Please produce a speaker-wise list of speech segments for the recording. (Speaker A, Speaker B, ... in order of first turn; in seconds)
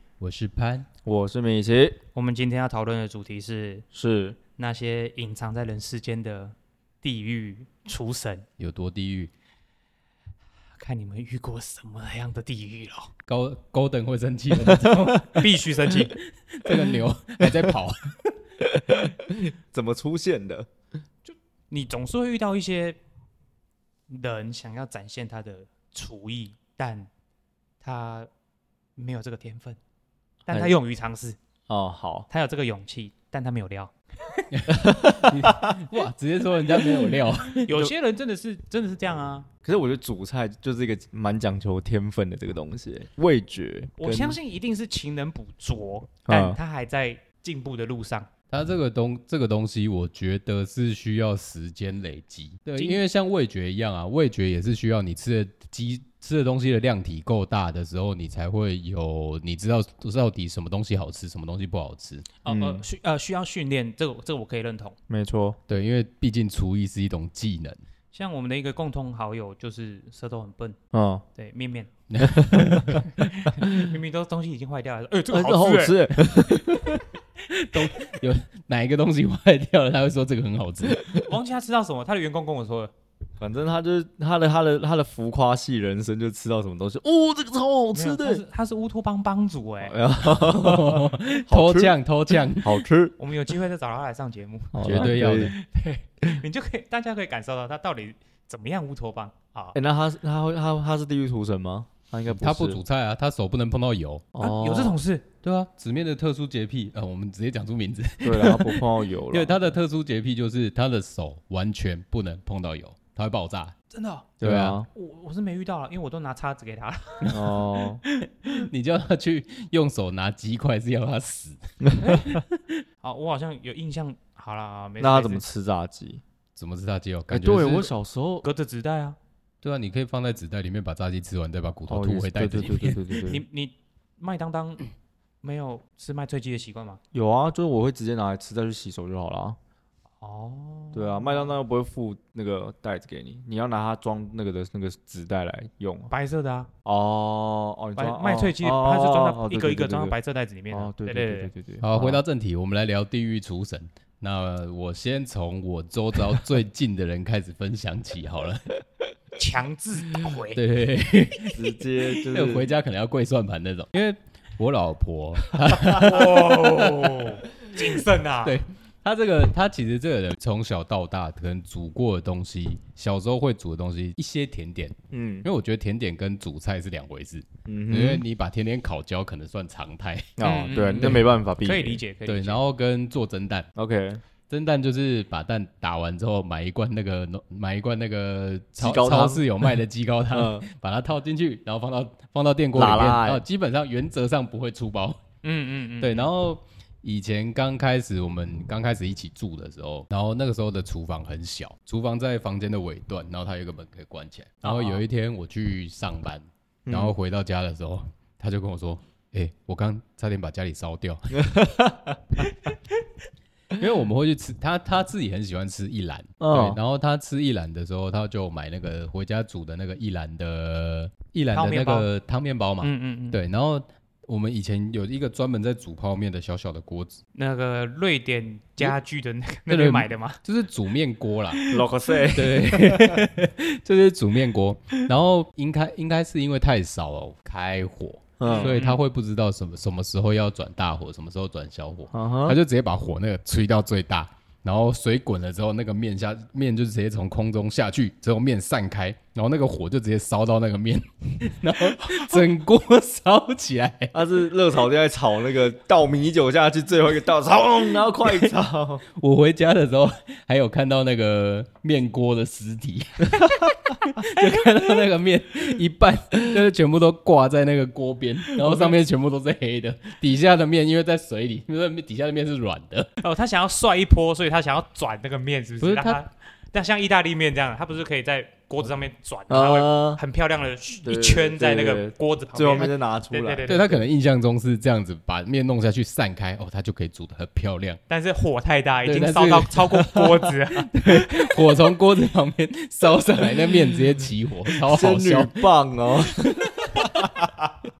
Speaker A: 0.2-0.9, 8.6-9.3, 13.3-18.2, 34.5-37.7, 48.5-62.3, 65.7-67.8, 72.1-73.1, 77.5-81.0, 90.3-92.8, 94.8-95.5, 102.4-104.2, 105.4-113.8, 114.4-114.8, 117.2-117.5, 118.2-122.8, 126.5-127.9, 129.6-133.0, 151.8-158.7, 160.5-166.8, 168.4-180.4, 180.9-181.2, 182.3-183.7, 184.5-195.2, 196.0-211.4, 213.8-227.2, 229.7-231.6, 232.3-254.1, 259.1-273.1, 275.8-276.2, 283.6-288.0, 289.0-290.2, 290.8-295.7, 296.4-297.0
Speaker B: 1.0-2.0, 3.9-4.4, 16.7-17.7, 18.6-20.7, 30.5-30.8, 31.7-32.3, 34.7-35.8, 39.6-44.4, 46.3-46.6, 62.5-62.8, 65.1-65.6, 70.9-71.2, 72.2-72.8, 75.3-77.0, 80.9-81.2, 83.4-88.4, 89.8-93.2, 94.7-95.5, 99.7-102.8, 104.3-105.0, 108.2-109.6, 114.4-114.9, 117.3-118.0, 125.0-126.2, 127.3-128.4, 131.9-133.4, 137.1-139.6, 140.9-146.1, 146.8-150.1, 150.7-152.2, 161.5-162.7, 165.7-166.0, 175.1-175.5, 177.7-178.2, 180.4-182.0, 183.8-184.2, 188.8-189.6, 190.3-190.7, 192.7-193.4, 206.8-207.1, 211.3-212.2, 216.4-216.8, 231.7-233.3, 238.4-238.8, 242.1-242.6, 254.1-259.0, 279.5-280.2, 281.0-283.9, 294.8-297.7
Speaker C: 2.1-3.9, 4.6-8.4, 10.8-13.1, 15.2-16.1, 21.2-23.0, 24.1-27.1, 27.8-28.3, 29.0-29.8, 30.4-31.4, 32.3-34.5, 37.5-39.5, 44.0-48.3, 52.8-53.0, 62.4-65.0, 68.1-70.8, 71.3-71.9, 72.5-76.1, 81.2-82.9, 87.9-90.0, 93.2-99.8, 104.4-105.3, 113.9-114.3, 114.9-118.1, 123.0-125.4, 128.4-129.2, 133.2-134.9, 135.4-137.0, 140.2-141.5, 146.1-146.7, 148.0-151.5, 159.4-160.6, 165.9-168.6, 180.4-182.6, 195.4-196.3, 204.6-205.0, 221.5-222.1, 222.8-223.4, 227.3-230.4, 231.5-231.8, 238.4-239.0, 273.2-283.9, 288.1-290.9